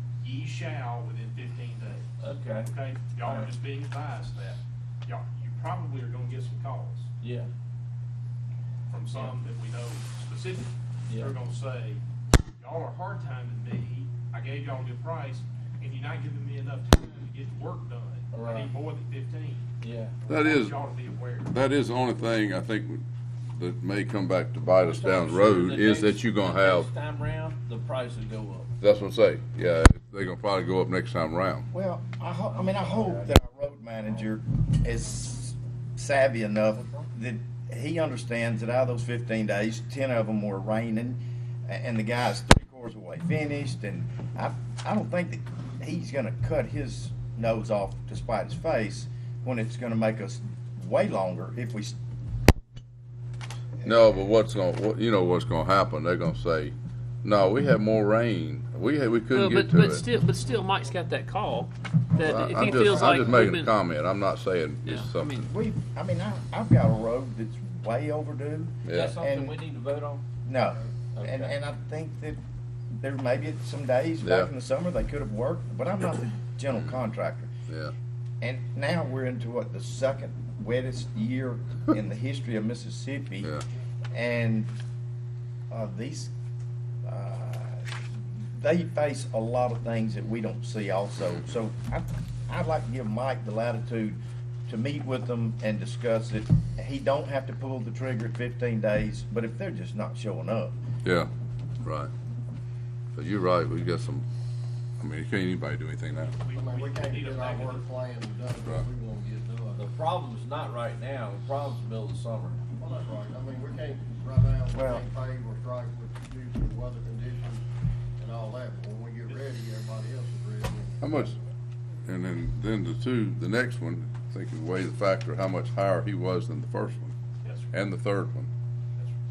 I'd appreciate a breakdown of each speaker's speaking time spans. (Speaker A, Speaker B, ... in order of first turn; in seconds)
Speaker A: 0.2-2.1, 2.6-7.1, 8.9-19.7, 20.2-21.6, 106.4-107.9, 127.4-127.7
Speaker B: 2.2-2.7, 3.2-3.5, 7.2-7.5, 11.1-11.3, 18.3-18.7, 19.8-20.1, 24.7-28.7, 32.5-33.5, 36.7-37.1, 68.9-70.2, 71.1-71.5, 109.7-112.6
Speaker C: 20.3-20.8, 21.5-26.9, 28.8-31.7, 53.8-60.0, 62.2-65.5, 68.8-69.2, 74.2-74.5, 76.7-77.0, 77.7-77.9, 101.0-101.3, 101.8-102.1, 103.1-104.2, 105.0-106.4, 121.0-121.3, 122.0-127.2, 127.7-128.5
Speaker D: 31.7-52.0, 53.8-54.2, 65.5-69.6, 70.4-72.4, 73.0-77.5, 78.4-83.5, 84.1-84.7, 85.7-86.3, 87.0-100.8, 114.7-115.0
Speaker E: 59.3-63.7, 64.8-65.4
Speaker F: 60.5-61.0, 106.5-109.8, 112.8-117.6, 118.2-121.5